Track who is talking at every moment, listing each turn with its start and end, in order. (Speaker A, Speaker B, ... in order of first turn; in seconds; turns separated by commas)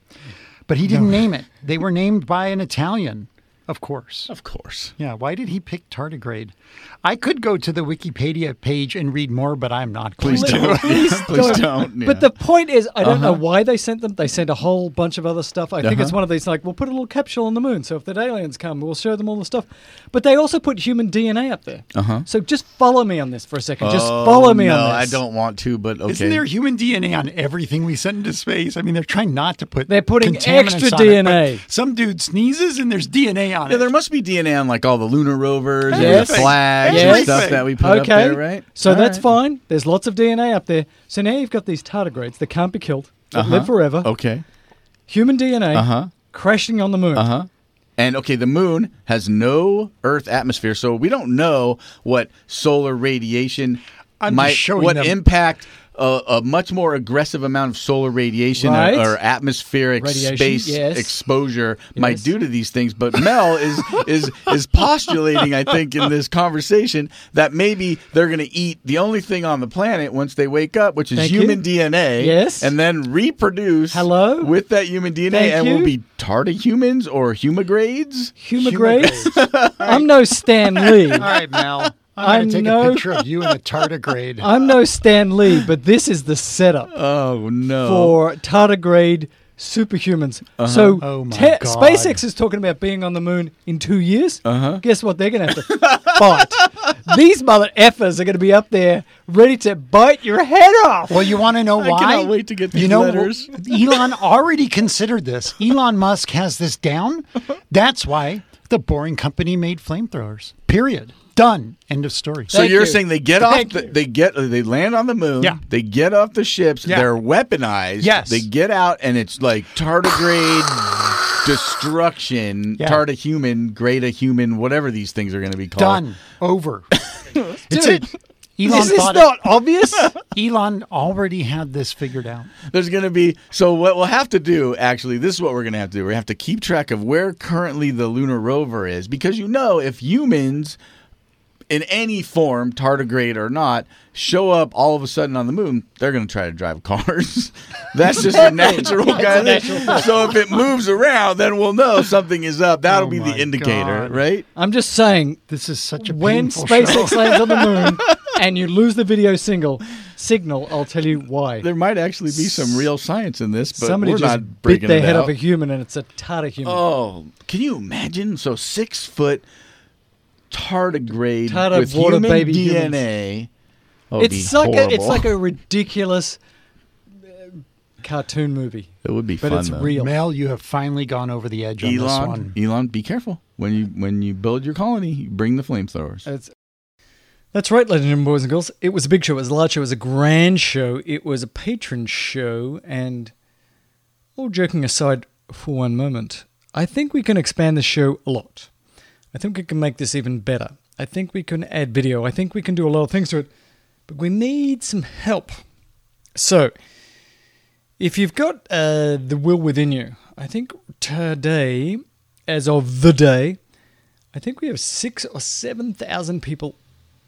Speaker A: 0.7-4.3, Speaker B: 4.3-4.9, Speaker A: 5.0-11.7, Speaker B: 10.2-12.3, Speaker C: 10.2-25.2, Speaker B: 13.0-13.4, Speaker B: 15.8-16.2, Speaker B: 21.9-22.2, Speaker B: 23.8-26.4, Speaker A: 26.1-33.9, Speaker C: 29.9-31.6, Speaker B: 33.7-39.3, Speaker C: 35.9-44.1, Speaker A: 35.9-37.7, Speaker B: 43.3-44.4, Speaker C: 45.1-47.3, Speaker B: 45.7-46.1, Speaker B: 47.1-78.3, Speaker A: 54.2-55.2, Speaker C: 58.6-59.2, Speaker C: 60.0-61.2, Speaker C: 61.9-62.3, Speaker C: 71.1-71.6, Speaker C: 72.2-72.7, Speaker C: 73.9-74.5, Speaker C: 75.3-75.9, Speaker C: 78.4-81.3, Speaker A: 78.6-80.1, Speaker B: 79.0-80.1, Speaker B: 80.6-81.6, Speaker A: 81.2-84.5, Speaker C: 82.2-83.2, Speaker C: 84.4-86.9, Speaker B: 86.9-88.1, Speaker C: 87.8-101.3, Speaker B: 90.6-91.0, Speaker A: 91.0-92.2, Speaker B: 94.5-94.8, Speaker B: 95.7-96.0, Speaker A: 101.1-112.5, Speaker B: 101.8-104.1, Speaker B: 112.5-126.0, Speaker C: 112.5-113.9, Speaker A: 116.8-117.1, Speaker A: 118.0-118.5, Speaker A: 125.8-126.9, Speaker A: 127.7-129.3, Speaker C: 127.7-128.0, Speaker C: 128.7-130.2, Speaker B: 128.7-129.1, Speaker A: 130.3-132.5, Speaker B: 132.7-140.8, Speaker B: 141.7-154.4, Speaker A: 148.2-150.3, Speaker C: 148.2-150.4, Speaker A: 152.9-154.2, Speaker C: 154.6-155.4, Speaker A: 155.5-157.7, Speaker C: 156.0-161.7, Speaker B: 161.6-165.3, Speaker C: 162.3-162.9, Speaker C: 163.7-166.8, Speaker B: 166.6-169.4, Speaker B: 170.5-173.5, Speaker C: 171.5-173.0, Speaker B: 174.1-175.3, Speaker C: 174.2-176.4, Speaker C: 177.2-180.2, Speaker B: 179.0-179.9, Speaker A: 179.9-182.6, Speaker B: 181.8-186.2, Speaker C: 186.2-186.5, Speaker C: 187.5-193.3, Speaker C: 194.4-198.7, Speaker C: 199.3-203.5, Speaker C: 204.1-205.6, Speaker C: 206.4-206.7, Speaker C: 208.0-213.6, Speaker C: 214.3-216.8